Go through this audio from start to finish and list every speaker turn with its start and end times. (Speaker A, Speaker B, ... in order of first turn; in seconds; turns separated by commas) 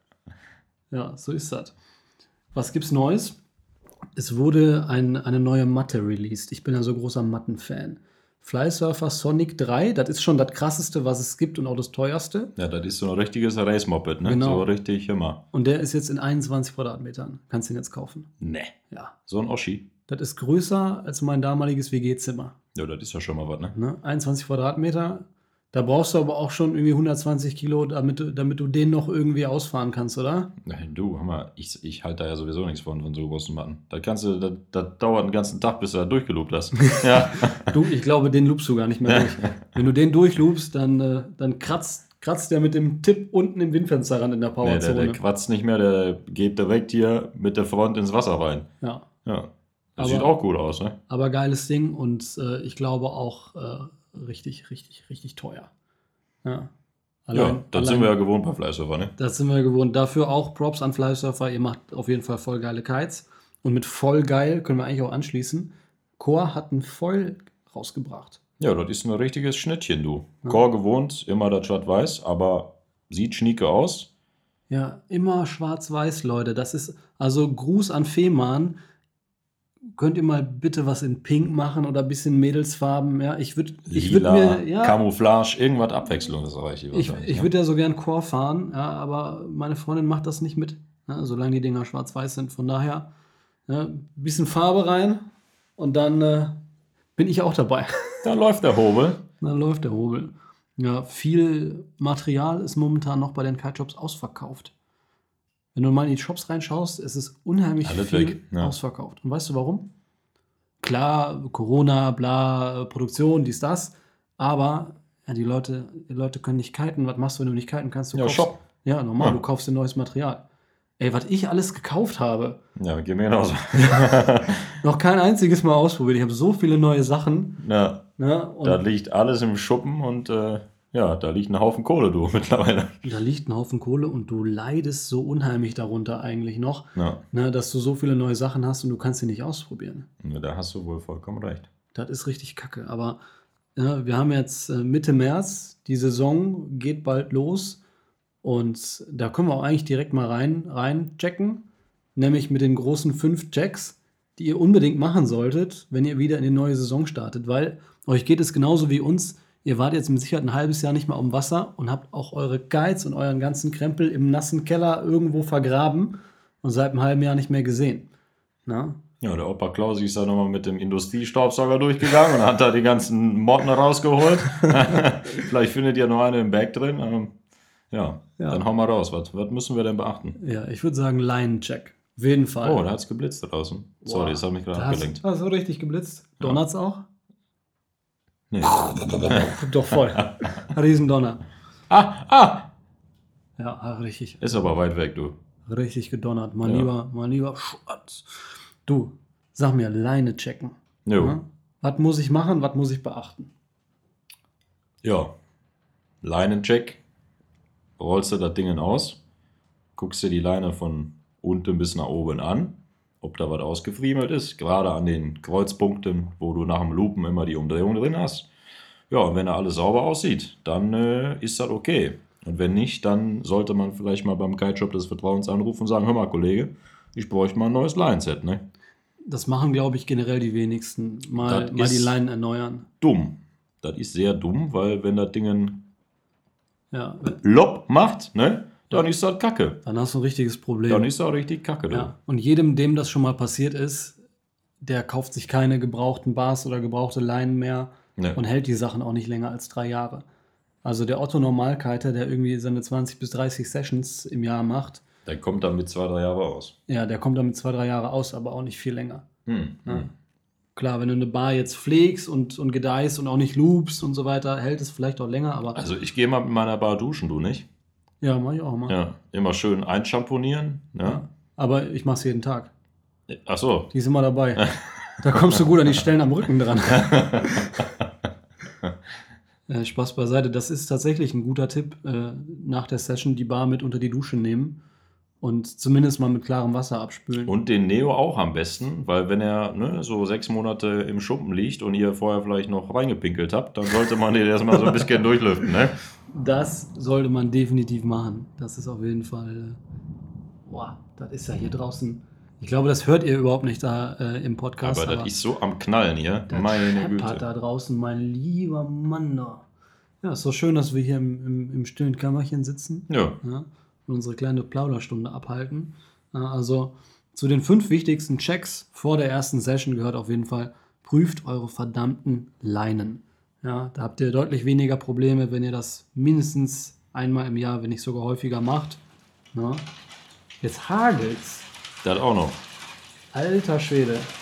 Speaker A: 0.9-1.7, Speaker A: 2.5-3.4, Speaker A: 4.2-12.5, Speaker B: 12.6-15.4, Speaker A: 14.2-14.7, Speaker A: 15.5-18.3, Speaker B: 18.4-18.7, Speaker B: 19.3-19.9, Speaker A: 20.1-22.5, Speaker B: 22.8-23.7, Speaker A: 23.7-30.5, Speaker B: 30.6-37.7, Speaker A: 37.0-45.2, Speaker B: 39.1-39.4, Speaker B: 44.6-48.7, Speaker A: 48.8-49.1, Speaker B: 49.2-51.0, Speaker A: 50.0-50.3, Speaker A: 51.1-55.7, Speaker A: 56.4-56.7, Speaker A: 57.3-58.1, Speaker B: 57.3-59.1, Speaker A: 59.2-68.4, Speaker B: 68.6-74.1, Speaker A: 74.7-78.8, Speaker A: 80.0-85.0, Speaker B: 83.9-87.5, Speaker A: 86.9-93.1, Speaker A: 93.7-95.2, Speaker A: 95.8-96.6, Speaker A: 97.2-98.3, Speaker B: 98.2-99.2, Speaker A: 99.4-104.7, Speaker A: 105.8-109.8, Speaker B: 107.8-108.7, Speaker A: 110.8-120.4, Speaker B: 118.1-118.6, Speaker A: 121.0-122.6, Speaker B: 122.8-124.8, Speaker A: 123.8-124.1, Speaker A: 124.8-127.6, Speaker B: 127.6-128.0, Speaker A: 128.2-128.8, Speaker B: 128.6-133.0, Speaker A: 133.0-140.1, Speaker B: 137.0-137.2, Speaker B: 140.2-141.7, Speaker A: 141.9-143.2, Speaker A: 143.8-147.8, Speaker A: 148.4-151.6, Speaker A: 152.2-168.1, Speaker A: 168.7-169.0, Speaker B: 169.2-177.3, Speaker A: 174.6-175.0, Speaker B: 177.9-180.4, Speaker A: 178.4-178.6, Speaker A: 180.4-182.8, Speaker B: 182.6-185.2, Speaker A: 184.1-187.0, Speaker B: 188.5-190.3, Speaker A: 188.7-191.4, Speaker B: 191.9-192.7, Speaker A: 193.6-194.4, Speaker B: 194.4-195.4, Speaker A: 195.7-198.3, Speaker A: 198.9-203.5, Speaker B: 201.1-201.4, Speaker B: 205.0-205.3, Speaker B: 206.2-207.0, Speaker B: 208.0-209.2, Speaker B: 210.0-218.5, Speaker B: 219.1-228.6, Speaker A: 229.2-232.9, Speaker B: 231.4-232.1, Speaker B: 233.0-235.8, Speaker A: 236.9-237.4, Speaker B: 237.3-239.8, Speaker A: 239.8-241.1, Speaker B: 240.9-242.1, Speaker A: 241.9-244.2, Speaker A: 244.8-250.2, Speaker A: 250.8-255.0, Speaker B: 255.3-256.8, Speaker A: 256.9-259.2, Speaker B: 259.5-260.1, Speaker A: 260.8-265.8, Speaker B: 265.8-267.7, Speaker A: 268.2-269.0, Speaker B: 268.9-271.2, Speaker A: 271.1-272.7, Speaker B: 273.3-273.9, Speaker A: 273.9-277.9, Speaker B: 274.6-275.6, Speaker B: 276.9-277.7, Speaker A: 279.7-284.8, Speaker A: 285.4-287.5, Speaker B: 287.4-296.0, Speaker A: 296.3-299.8, Speaker A: 300.7-305.3, Speaker B: 304.8-307.4, Speaker A: 306.5-309.6, Speaker A: 310.2-329.0, Speaker B: 313.1-313.4, Speaker A: 329.5-329.9, Speaker A: 330.6-331.7, Speaker B: 332.0-332.6, Speaker A: 333.3-334.3